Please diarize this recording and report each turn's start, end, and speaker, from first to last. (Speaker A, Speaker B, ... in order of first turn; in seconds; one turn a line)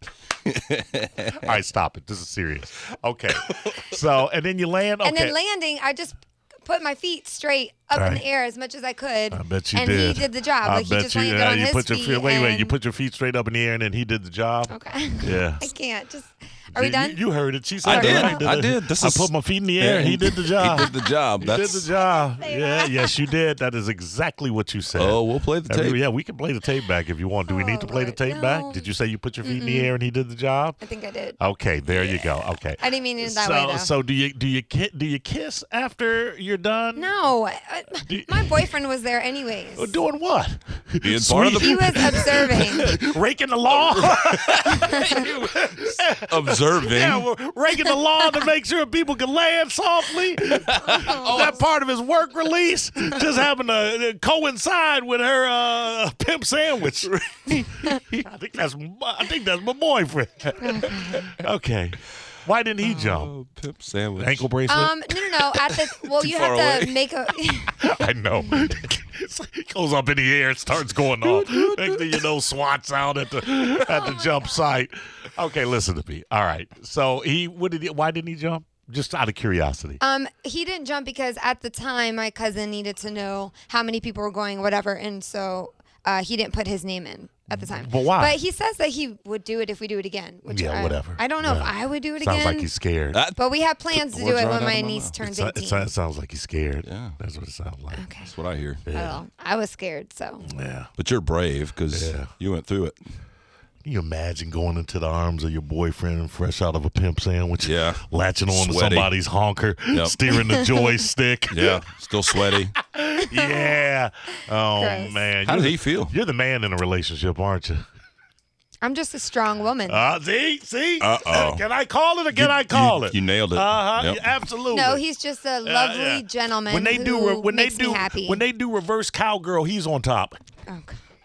Speaker A: 0.5-1.4
Speaker B: 1.3-5.4
Speaker C: 5.0-12.8
Speaker B: 7.9-8.2
Speaker B: 9.3-15.7
Speaker C: 14.7-17.2
Speaker B: 16.7-30.8
Speaker A: 17.8-21.9
Speaker C: 17.9-18.4
Speaker C: 22.0-23.3
Speaker A: 24.9-26.0
Speaker C: 27.5-28.8
Speaker C: 29.4-29.9
Speaker C: 30.8-31.4
Speaker B: 31.4-37.1
Speaker C: 31.9-33.9
Speaker C: 37.0-40.0
Speaker B: 38.0-38.7
Speaker B: 39.8-63.3
Speaker A: 41.0-42.9
Speaker C: 41.5-43.0
Speaker A: 43.7-47.3
Speaker C: 44.7-45.3
Speaker C: 50.9-51.5
Speaker A: 51.0-51.5
Speaker A: 57.0-57.3
Speaker C: 60.6-61.4
Speaker A: 62.8-64.5
Speaker B: 64.2-65.0
Speaker C: 64.7-67.8
Speaker A: 66.1-67.0
Speaker B: 67.8-80.0
Speaker A: 71.2-72.2
Speaker C: 73.9-74.5
Speaker C: 80.0-92.7
Speaker B: 87.5-88.4
Speaker B: 90.5-93.2
Speaker A: 93.1-93.4
Speaker C: 93.4-95.9
Speaker A: 93.9-95.2
Speaker B: 95.2-98.1
Speaker A: 96.8-97.2
Speaker C: 97.9-98.3
Speaker A: 98.2-98.8
Speaker B: 98.9-99.2
Speaker C: 98.9-100.5
Speaker B: 100.4-100.9
Speaker A: 101.0-103.0
Speaker B: 101.9-102.3
Speaker B: 103.8-111.8
Speaker A: 107.6-109.1
Speaker A: 109.9-110.2
Speaker A: 111.5-112.8
Speaker B: 112.8-117.8
Speaker C: 113.3-113.7
Speaker C: 114.8-115.3
Speaker A: 115.4-116.2
Speaker C: 118.8-120.0
Speaker B: 119.9-125.0
Speaker A: 121.0-121.6
Speaker A: 122.3-124.2
Speaker C: 124.7-128.4
Speaker B: 125.6-130.4
Speaker C: 130.7-131.0